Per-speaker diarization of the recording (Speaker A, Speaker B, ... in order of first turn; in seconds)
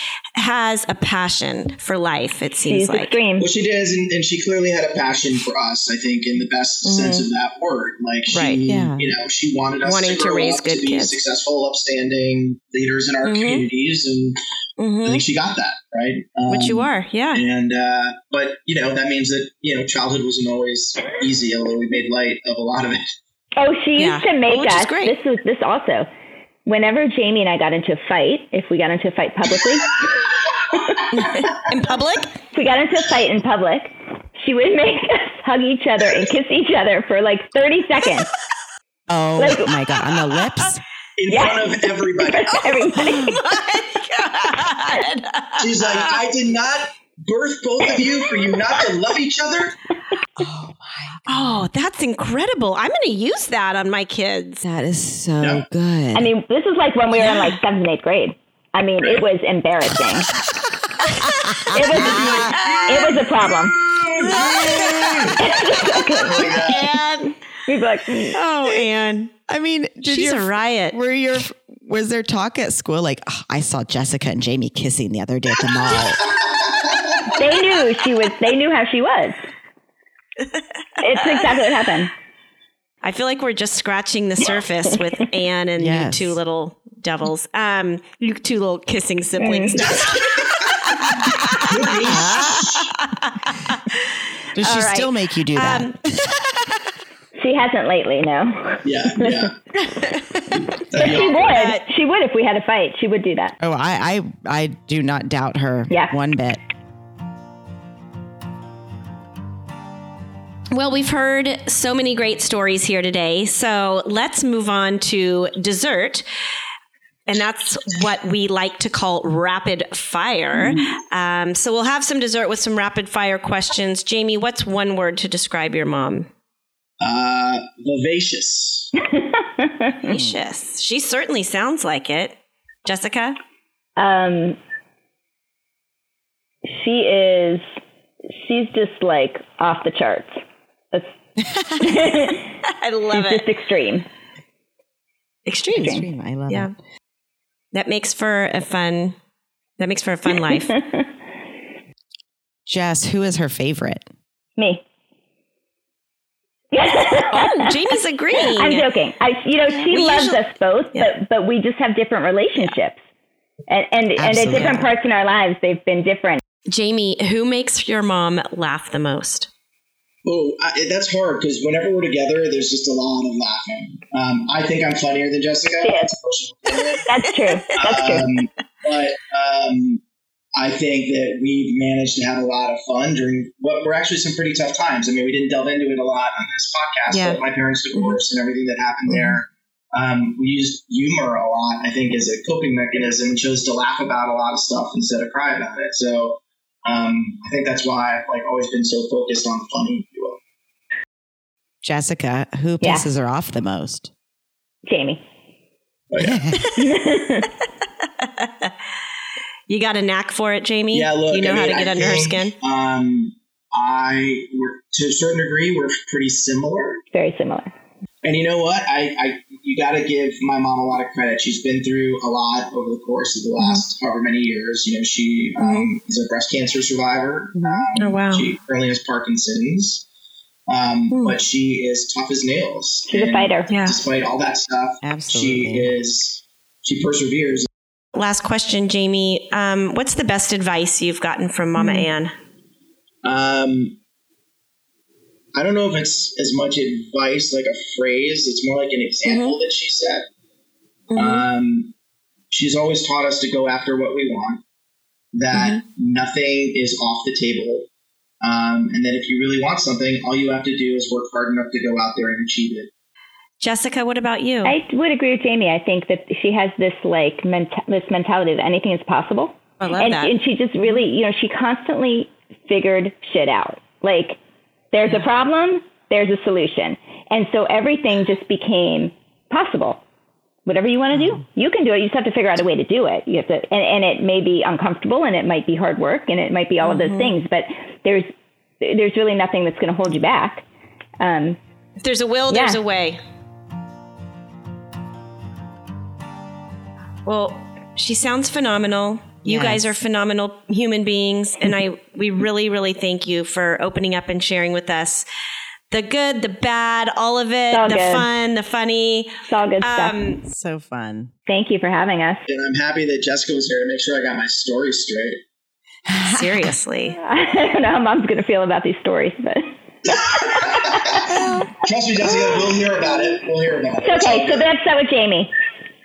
Speaker A: 0.4-3.2, 6.8-7.3, 8.3-8.6, 9.8-11.2, 13.2-13.6, 14.8-15.2, 16.5-17.4, 24.0-25.2, 31.1-32.4, 43.0-46.2, 51.3-54.7, 62.6-62.9, 64.2-65.3, 66.4-67.4, 68.3-69.3, 70.0-71.0, 81.2-81.5, 83.0-93.8, 94.6-96.0, 99.9-101.8, 110.7-116.2, 117.3-126.3, 130.0-133.4, 142.7-143.5, 145.5-145.9, 147.7-149.2, 149.8-150.8, 157.3-158.9, 159.7-161.1, 164.5-164.8, 166.7-169.5, 187.1-187.4, 187.9-188.2, 189.1-189.3, 208.2-208.7, 209.7-212.6, 225.6-225.9, 228.0-228.5, 231.1-231.4, 233.7-234.0, 238.2-242.3, 249.2-249.6, 251.1-251.5, 255.5-255.8, 263.6-264.8, 269.8-270.3, 286.8-287.3, 292.0-293.2, 297.2-305.2, 305.9-310.4, 316.2-317.2
Speaker B: 2.7-3.5, 23.6-26.1, 26.7-29.9, 30.8-31.0, 32.5-38.3, 39.4-39.8, 41.3-43.4, 56.1-60.3, 61.7-63.8, 65.4-67.0, 67.7-68.4, 77.3-79.4, 81.0-82.1, 89.4-89.9, 97.4-99.5, 100.9-103.5, 129.1-130.1, 134.0-134.6, 136.7-137.6, 138.3-140.4, 141.7-142.5, 143.1-144.1, 145.8-146.1, 150.8-151.1, 154.6-154.8, 156.7-157.8, 158.5-163.0, 163.7-166.4, 175.8-176.1, 177.1-178.2, 204.9-205.2, 206.8-207.5, 217.1-217.7, 233.1-233.8, 264.6-274.4, 274.9-280.0, 280.7-288.3, 288.8-290.6, 291.2-291.6, 292.5-292.8, 307.7-308.3, 309.5-310.2, 311.5-312.4, 317.2-320.6, 324.0-325.5
Speaker C: 3.4-14.4, 15.0-23.1, 31.1-31.6, 41.2-42.7, 45.6-49.8, 55.4-55.6, 61.9-65.4, 66.3-66.9, 91.6-92.9, 98.8-99.6, 100.5-101.5, 127.0-128.9, 170.2-177.1, 177.8-180.0, 180.6-200.4, 206.1-206.6, 210.9-217.0, 218.2-230.1, 230.7-237.7, 243.2-244.0, 245.5-250.3, 251.2-251.9, 252.5-254.6, 255.3-257.9, 258.4-262.9, 312.5-315.4, 320.1-324.7
Speaker D: 8.7-9.1, 39.1-40.8, 50.4-51.7, 54.6-56.3, 61.6-62.5, 64.3-65.4, 69.5-76.2, 85.8-86.4, 94.6-96.5, 103.6-106.6, 130.1-130.4, 145.7-146.8, 152.7-154.1, 164.2-164.9, 201.8-204.1, 206.2-206.6, 227.6-227.9, 235.0-235.9, 299.4-300.0, 310.4-311.3, 316.1-316.7, 321.2-321.7